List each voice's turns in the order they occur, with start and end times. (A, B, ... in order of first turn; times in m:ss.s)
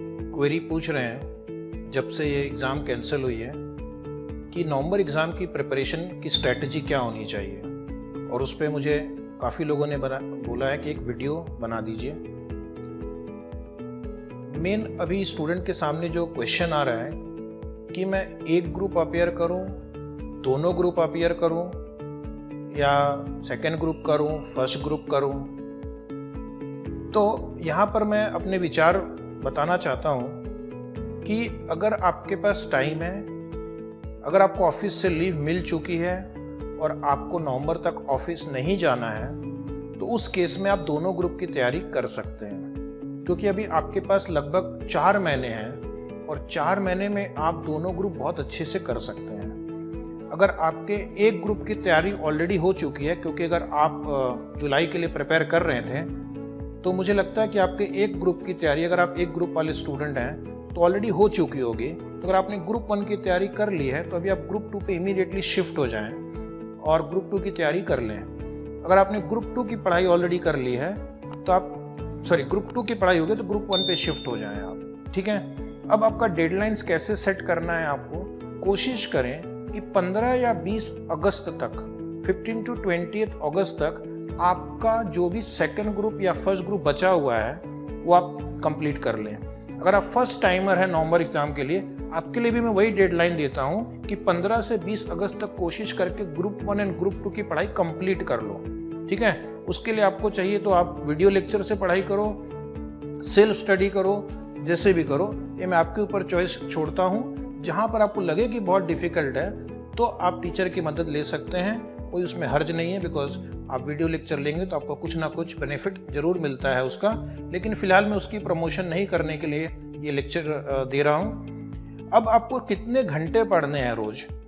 0:00.3-0:03.6 A
0:04.5-0:07.7 A
0:08.3-0:12.2 A
0:14.5-0:17.2 A
0:17.9-0:19.8 A
0:20.4-0:21.8 A
0:22.7-0:25.6 A
0:27.1-0:30.4 A
0:31.2-0:33.3 A
0:34.2-0:39.4 A
0:40.0-0:42.7 A
0:43.2-0:49.6 A
0:50.3-0:56.2 A
0:56.8-1:06.2 A
1:06.8-1:42.5 A
1:43.2-2:01.5 A
2:02.1-2:04.3 A